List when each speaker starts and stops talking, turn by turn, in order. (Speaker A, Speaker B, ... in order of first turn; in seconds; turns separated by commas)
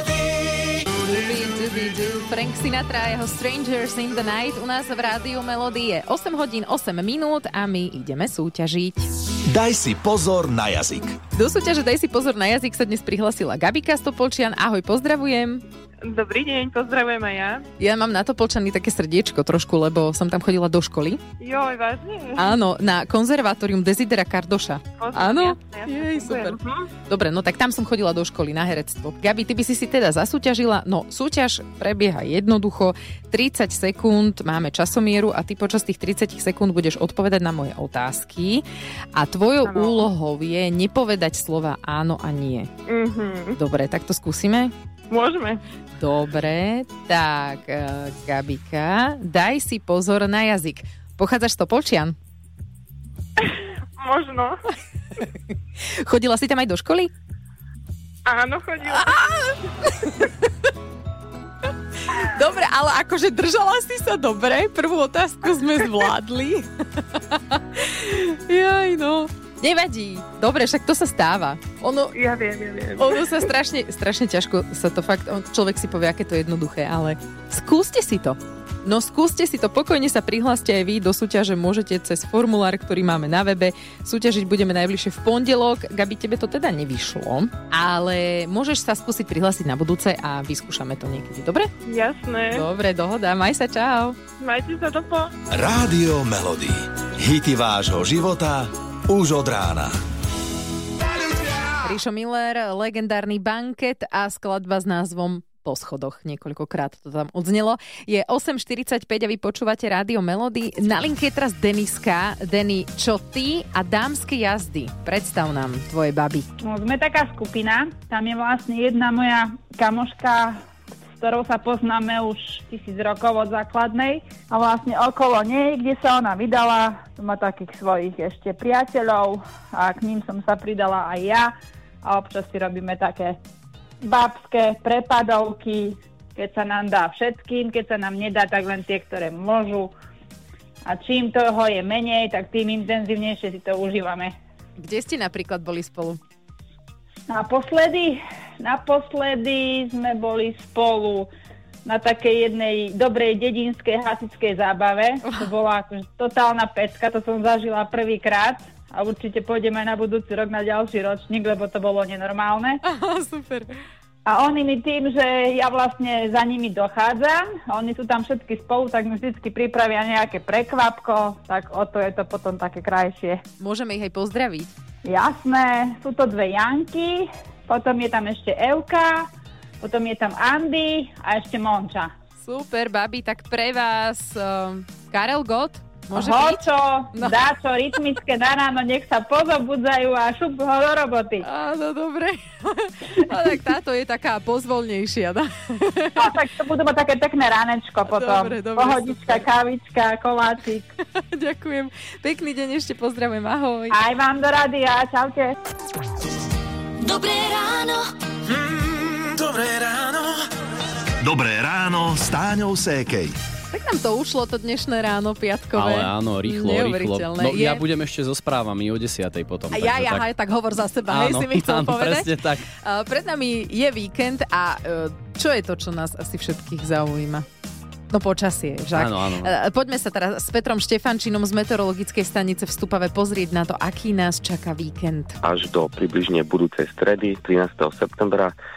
Speaker A: 0.9-9.1, Speaker B: 9.5-11.2, Speaker A: 11.3-15.6, Speaker C: 16.0-17.7, Speaker A: 17.8-21.2, Speaker C: 21.4-22.6, Speaker A: 22.4-42.7, Speaker C: 25.0-26.9, Speaker C: 39.6-40.0, Speaker C: 42.9-43.6, Speaker A: 43.6-44.7, Speaker C: 45.1-45.6, Speaker A: 46.0-52.1, Speaker C: 53.5-54.6, Speaker A: 55.8-57.1, Speaker C: 58.2-59.2, Speaker A: 58.9-60.3, Speaker A: 62.1-72.2, Speaker C: 72.1-73.2, Speaker A: 73.0-91.7, Speaker C: 91.8-92.7, Speaker A: 92.5-94.2, Speaker C: 94.4-95.3, Speaker B: 95.5-100.0, Speaker A: 101.7-116.5, Speaker D: 116.6-120.5, Speaker D: 121.2-131.5, Speaker D: 132.0-133.4, Speaker D: 134.1-139.9, Speaker D: 140.9-144.3, Speaker A: 144.8-146.2, Speaker D: 147.3-151.3, Speaker D: 151.9-162.8, Speaker A: 155.3-155.5, Speaker A: 162.8-163.7, Speaker D: 164.3-173.4, Speaker A: 173.6-174.7, Speaker D: 175.1-179.2, Speaker D: 179.8-182.1, Speaker A: 182.4-187.4, Speaker D: 186.2-191.4, Speaker A: 191.4-196.4, Speaker D: 196.2-200.9, Speaker A: 198.0-199.5, Speaker A: 201.2-204.0, Speaker D: 203.9-205.5, Speaker A: 207.0-208.1, Speaker B: 211.2-213.3, Speaker A: 213.7-217.8, Speaker E: 215.8-220.3, Speaker A: 219.7-227.5, Speaker E: 221.1-222.7, Speaker A: 228.1-235.4, Speaker E: 228.9-229.5, Speaker F: 235.4-238.5